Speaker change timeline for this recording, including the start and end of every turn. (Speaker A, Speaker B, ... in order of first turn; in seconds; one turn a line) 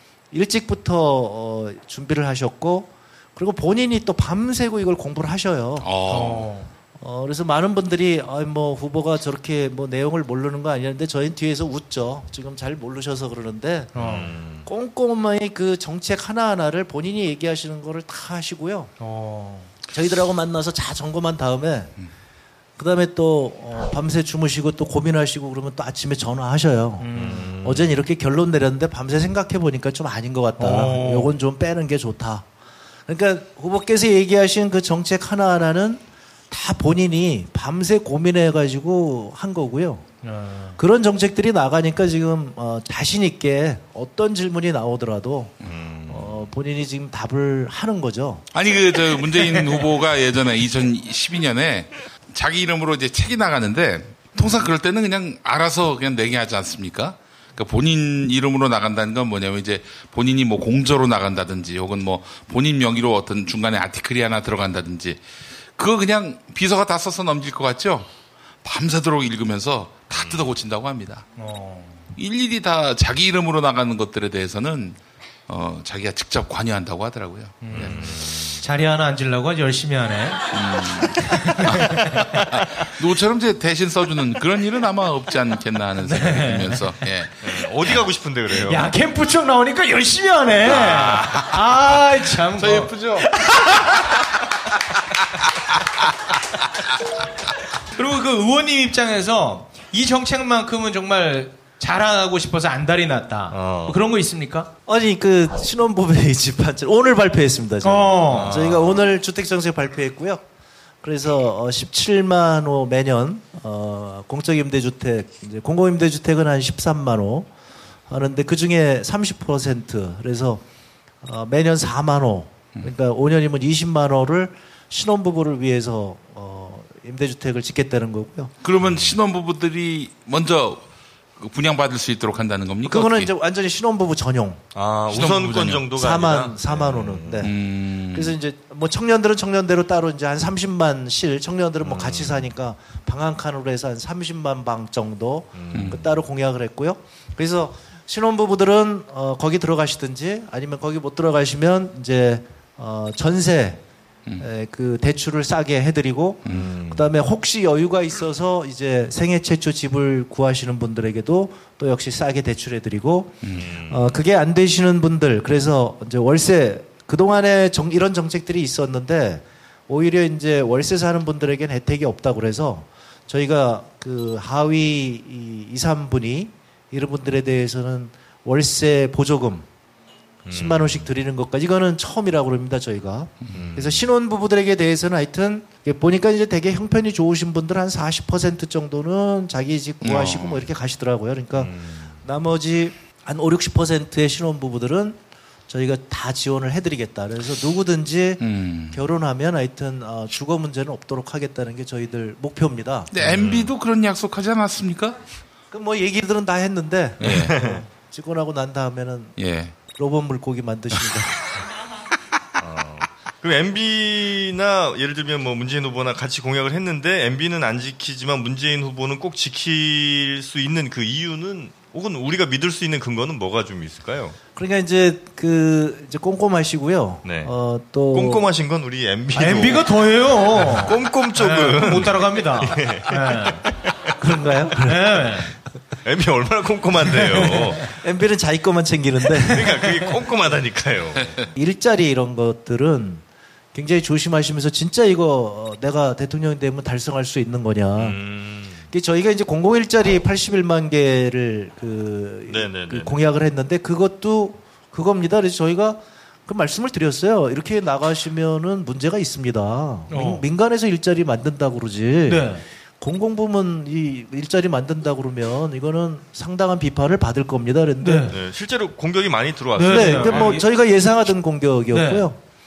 Speaker A: 0.3-5.9
Speaker B: 5.8-6.5
Speaker C: 6.1-6.7
Speaker A: 7.0-13.9
Speaker C: 13.9-14.3
Speaker D: 14.0-14.7
Speaker A: 14.7-18.9
Speaker C: 19.0-19.7
Speaker A: 19.9-21.9
Speaker A: 22.8-32.5
Speaker C: 27.0-27.6
Speaker D: 27.1-27.9
Speaker C: 30.6-31.3
Speaker A: 33.1-40.0
Speaker C: 40.2-40.8
Speaker A: 40.8-45.6
Speaker D: 45.6-46.3
Speaker A: 46.1-48.5
Speaker B: 48.5-68.1
Speaker B: 68.6-71.3
Speaker D: 70.1-70.5
Speaker C: 71.4-72.0
Speaker B: 72.2-78.0
Speaker C: 77.6-80.4
Speaker D: 77.7-78.6
Speaker B: 80.5-87.4
Speaker C: 81.2-82.1
Speaker C: 86.0-86.9
Speaker D: 87.4-88.8
Speaker C: 88.5-94.2
Speaker B: 90.7-91.7
Speaker B: 92.6-93.3
Speaker C: 97.9-104.7
Speaker D: 103.5-104.0
Speaker A: 104.9-110.5
Speaker C: 107.8-108.5
Speaker D: 108.3-109.0
Speaker A: 111.0-117.5
Speaker A: 118.1-120.6
Speaker A: 121.2-128.5
Speaker B: 128.6-133.3
Speaker D: 128.9-129.1
Speaker A: 132.8-134.6
Speaker D: 134.7-137.5
Speaker B: 135.1-135.9
Speaker A: 135.9-137.5
Speaker B: 137.4-138.3
Speaker A: 138.1-153.8
Speaker D: 141.8-142.5
Speaker D: 145.6-146.0
Speaker B: 145.7-146.0
Speaker A: 154.4-179.7
Speaker B: 156.5-156.7
Speaker D: 156.6-157.0
Speaker B: 163.4-163.8
Speaker D: 163.6-164.1
Speaker D: 180.5-181.1
Speaker A: 180.5-191.7
Speaker D: 183.5-184.1
Speaker B: 190.0-190.7
Speaker D: 191.6-192.2
Speaker A: 192.2-203.1
Speaker B: 198.4-199.0
Speaker B: 203.1-205.2
Speaker D: 203.2-203.7
Speaker A: 205.7-209.4
Speaker B: 207.2-207.6
Speaker D: 207.3-207.8
Speaker B: 209.4-209.8
Speaker A: 209.9-211.4
Speaker D: 212.6-224.4
Speaker A: 224.6-228.5
Speaker D: 227.2-227.5
Speaker D: 228.1-230.0
Speaker C: 229.3-233.7
Speaker D: 230.6-234.1
Speaker A: 234.2-235.3
Speaker C: 234.8-235.5
Speaker D: 236.0-237.9
Speaker A: 237.9-239.8
Speaker D: 239.5-241.4
Speaker A: 241.5-248.2
Speaker D: 248.0-248.8
Speaker A: 248.9-268.3
Speaker D: 252.5-253.2
Speaker C: 260.1-260.4
Speaker C: 262.3-262.6
Speaker C: 268.0-268.4
Speaker D: 268.3-270.6
Speaker C: 269.8-270.6
Speaker A: 269.9-272.4
Speaker C: 271.9-272.2